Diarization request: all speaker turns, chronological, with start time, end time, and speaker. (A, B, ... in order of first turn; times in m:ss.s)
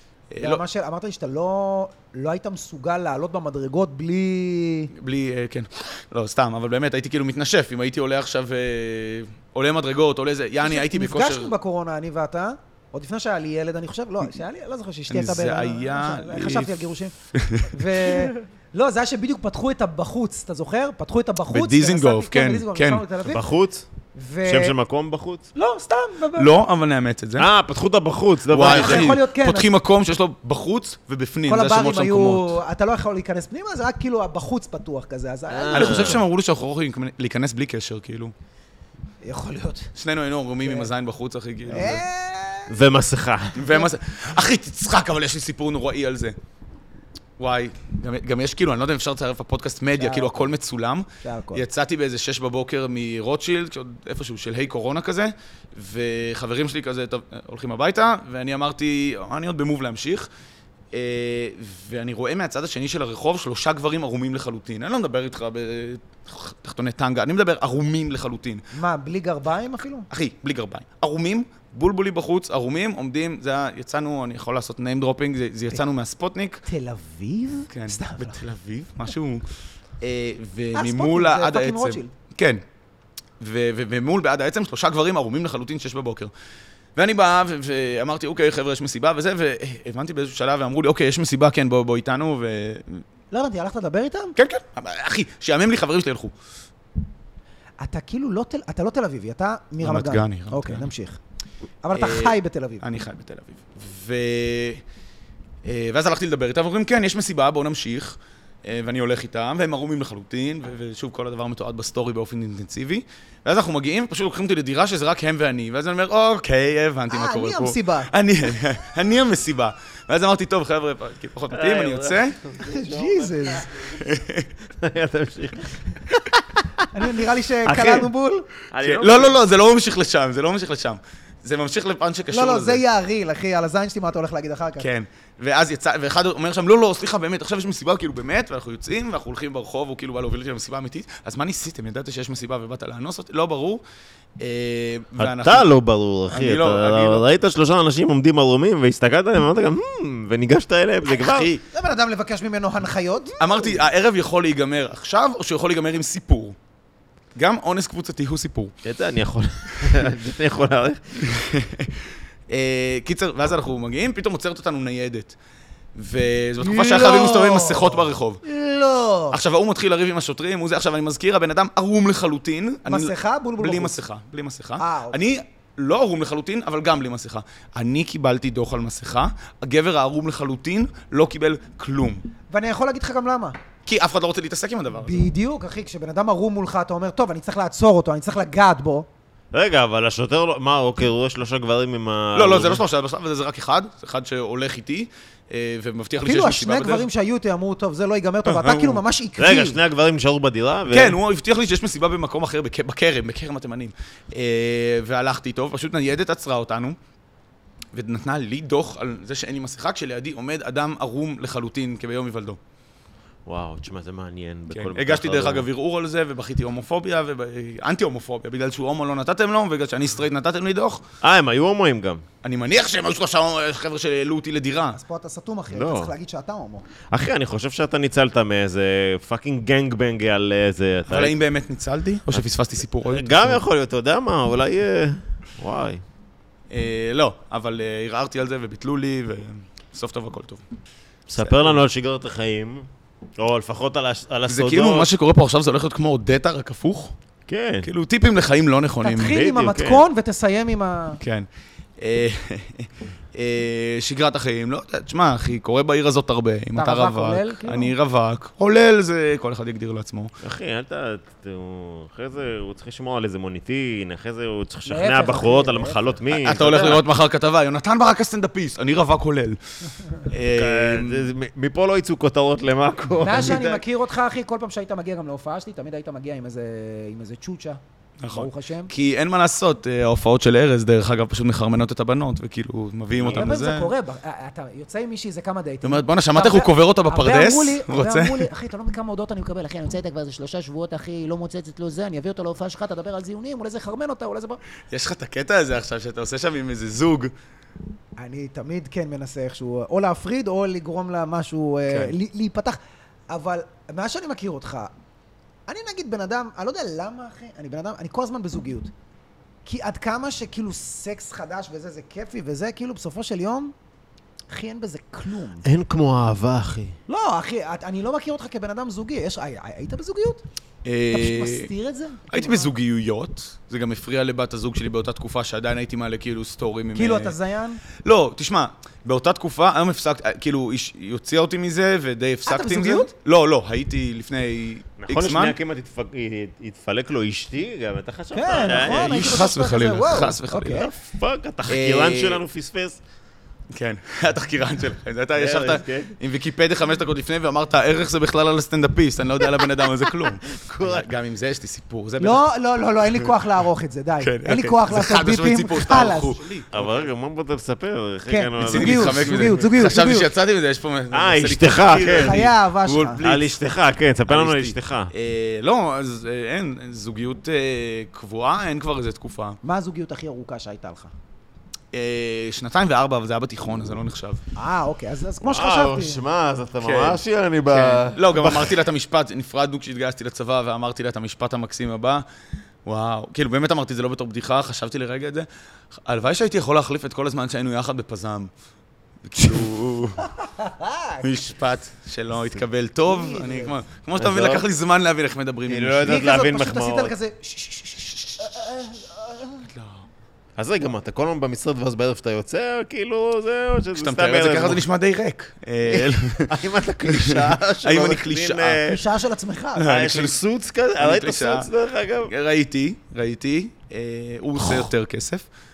0:00.3-0:00.6 A
0:00.4-0:04.9 B
0:04.9-0:11.5 A
0:10.6-0:17.1 B
0:15.1-0:17.7 A
0:17.6-0:23.4 B
0:21.5-0:23.0 A
0:23.2-0:23.9 C
0:24.1-0:24.8 B
0:24.4-0:25.4 C
0:25.5-0:26.5 B
0:26.4-0:27.5 A
0:27.4-0:29.2 C
0:28.5-0:32.6 A
0:28.6-0:29.7 B
0:31.5-0:36.2 B
0:35.5-0:36.2 C
0:35.7-0:38.3 A
0:39.2-0:39.9 B
0:40.0-0:42.0 A
0:40.6-0:40.9 B
0:41.7-0:42.7 B
0:42.7-0:43.7 C
0:43.6-0:46.4 A
0:47.4-1:00.3 A
0:50.0-0:50.5 B
0:51.2-0:51.6 B
1:00.9-1:08.6 A
1:08.7-1:10.1 B
1:10.1-1:16.6 A
1:16.6-1:18.4 B
1:17.7-1:19.4 A
1:20.0-1:22.6 A
1:20.7-1:22.1 B
1:23.4-1:26.3 A
1:27.0-1:33.0 A
1:33.3-1:34.4 B
1:34.4-1:36.3 A
1:37.8-1:41.2 B
1:39.8-1:40.8 A
1:41.8-1:42.8 B
1:41.9-1:44.8 A
1:45.6-2:02.4 A
1:57.1-1:58.1 B
2:01.5-2:04.0 C
2:02.6-2:03.7 B
2:04.0-2:04.5 A
2:04.8-2:06.7 C
2:06.9-2:08.5 B
2:07.7-2:08.1 C
2:08.7-2:09.4 C
2:08.8-2:12.8 A
2:12.3-2:14.9 B
2:14.8-2:23.8 A
2:24.4-2:25.7 A
2:25.2-2:31.5 C
2:26.3-2:27.2 A
2:31.2-2:31.6 A
2:31.7-2:33.5 B
2:33.4-2:36.6 A
2:37.4-2:38.7 A
2:38.8-2:41.0 C
2:41.2-2:41.9 A
2:42.5-2:45.3 A
2:46.0-2:48.4 A
2:46.6-2:49.4 B
2:49.3-3:02.2 A
2:52.8-2:54.0 B
2:54.8-2:55.2 B
3:02.5-3:03.6 B
3:03.8-3:05.3 A
3:05.0-3:09.1 B
3:09.5-3:12.8 C
3:12.3-3:17.0 A
3:16.2-3:19.8 B
3:18.4-3:19.0 A
3:19.4-3:21.2 C
3:20.9-3:27.0 A
3:27.9-3:32.6 A
3:33.4-3:35.7 C
3:34.7-3:41.0 A
3:41.2-3:42.2 C
3:42.4-3:45.0 A
3:44.9-3:46.8 B
3:45.7-3:46.1 C
3:47.1-3:51.3 C
3:51.1-3:53.6 A
3:53.0-3:56.0 C
3:56.7-4:00.6 A
4:01.3-4:02.9 C
4:01.4-4:01.8 A
4:03.4-4:05.1 C
4:04.5-4:07.1 A
4:07.5-4:07.9 C
4:07.8-4:09.4 A
4:09.0-4:11.2 B
4:09.2-4:10.0 C
4:11.2-4:11.5 A
4:12.0-4:20.3 A
4:16.8-4:17.9 B
4:20.4-4:27.0 C
4:24.9-4:26.1 B
4:26.3-4:29.6 A
4:30.1-4:31.3 A
4:30.5-4:33.8 C
4:33.2-4:38.9 B
4:38.2-4:43.9 A
4:43.2-4:43.4 C
4:43.2-4:54.6 B
4:45.8-4:48.5 A
4:54.9-4:57.3 A
4:58.2-5:02.8 B
5:01.9-5:02.1 A
5:03.3-5:04.9 B
5:05.7-5:08.9 B
5:09.6-5:13.7 B
5:14.5-5:15.6 B
5:15.6-5:17.0 C
5:17.1-5:20.4 B
5:20.8-5:21.7 A
5:21.1-5:22.7 B
5:22.3-5:27.4 A
5:26.9-5:27.8 B
5:28.0-5:35.5 A
5:32.4-5:33.1 B
5:35.0-5:39.4 C
5:38.3-5:40.9 B
5:38.5-5:40.9 A
5:40.8-5:43.0 C
5:41.7-5:42.4 A
5:43.7-5:52.4 A
5:45.4-5:46.1 C
5:50.5-5:51.1 C
5:52.2-5:56.4 B
5:54.2-5:57.0 A
5:56.7-5:59.6 C
5:58.3-6:00.3 B
5:58.6-6:03.6 A
6:01.1-6:02.4 C
6:02.1-6:03.2 B
6:03.2-6:05.1 C
6:04.3-6:09.6 A
6:09.6-6:11.1 B
6:11.9-6:14.4 A
6:14.6-6:16.2 B
6:15.4-6:18.8 C
6:16.8-6:22.2 A
6:22.8-6:25.5 A
6:26.0-6:28.5 A
6:29.2-6:30.3 A
6:30.5-6:31.2 B
6:31.2-6:36.2 A
6:33.1-6:33.8 B
6:34.2-6:34.6 C
6:35.7-6:37.1 C
6:36.0-6:39.7 B
6:39.7-6:40.0 A
6:40.6-6:44.8 C
6:44.0-6:48.8 A
6:45.8-6:49.0 C
6:48.8-6:50.0 B
6:49.8-6:50.4 A
6:49.8-6:52.3 C
6:51.0-6:51.7 A
6:52.3-6:55.4 A